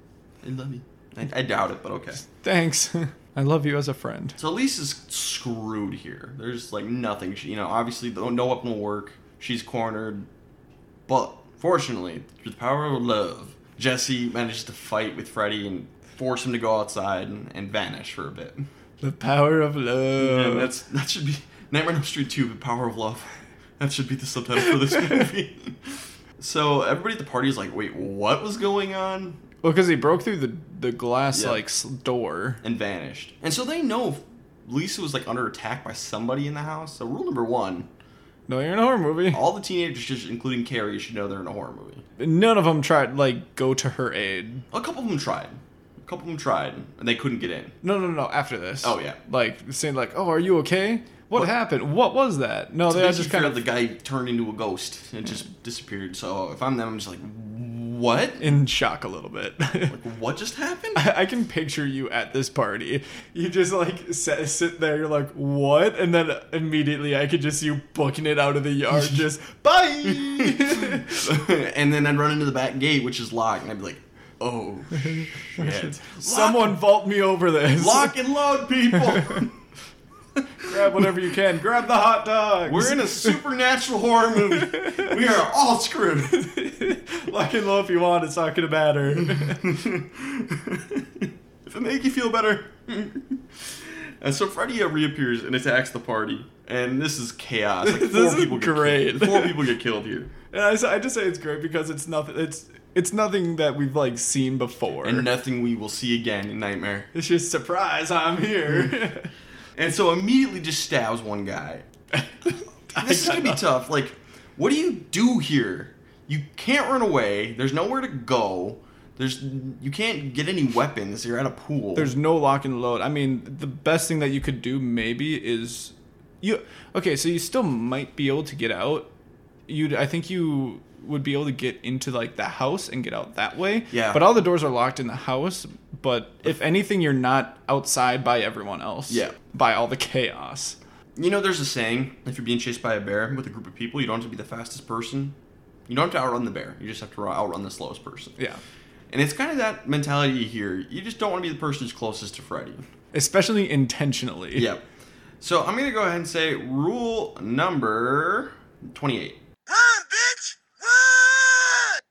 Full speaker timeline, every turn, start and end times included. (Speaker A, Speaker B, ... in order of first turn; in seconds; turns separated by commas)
Speaker A: 0.4-2.2, Speaker B: 2.4-4.4, Speaker A: 4.4-10.3, Speaker A: 11.1-18.6, Speaker B: 19.0-20.7, Speaker A: 20.2-23.3, Speaker A: 23.8-29.4, Speaker B: 29.6-32.6, Speaker A: 31.3-31.6, Speaker A: 32.6-37.9, Speaker B: 38.5-39.4, Speaker A: 39.3-42.0, Speaker B: 42.2-44.6, Speaker A: 44.7-47.8, Speaker B: 47.8-53.6, Speaker A: 48.8-49.2, Speaker A: 52.9-58.5, Speaker B: 58.4-60.0, Speaker A: 59.9-61.0, Speaker B: 60.9-71.3, Speaker A: 70.1-76.8, Speaker B: 75.6-78.2, Speaker A: 77.7-79.5, Speaker B: 80.6-83.4, Speaker A: 82.6-86.4, Speaker B: 86.3-89.8, Speaker A: 89.3-100.3, Speaker B: 97.8-99.5, Speaker B: 100.5-105.2, Speaker A: 105.0-107.1, Speaker B: 107.1-109.3, Speaker A: 109.8-111.9, Speaker B: 112.2-113.6, Speaker A: 112.9-122.1, Speaker B: 121.9-129.1, Speaker B: 129.7-140.8, Speaker A: 133.9-134.3, Speaker A: 139.1-139.3, Speaker A: 141.2-145.3, Speaker A: 145.9-148.4, Speaker A: 149.1-152.8, Speaker B: 153.1-154.7, Speaker A: 154.5-154.8, Speaker A: 155.4-159.4, Speaker C: 159.7-162.0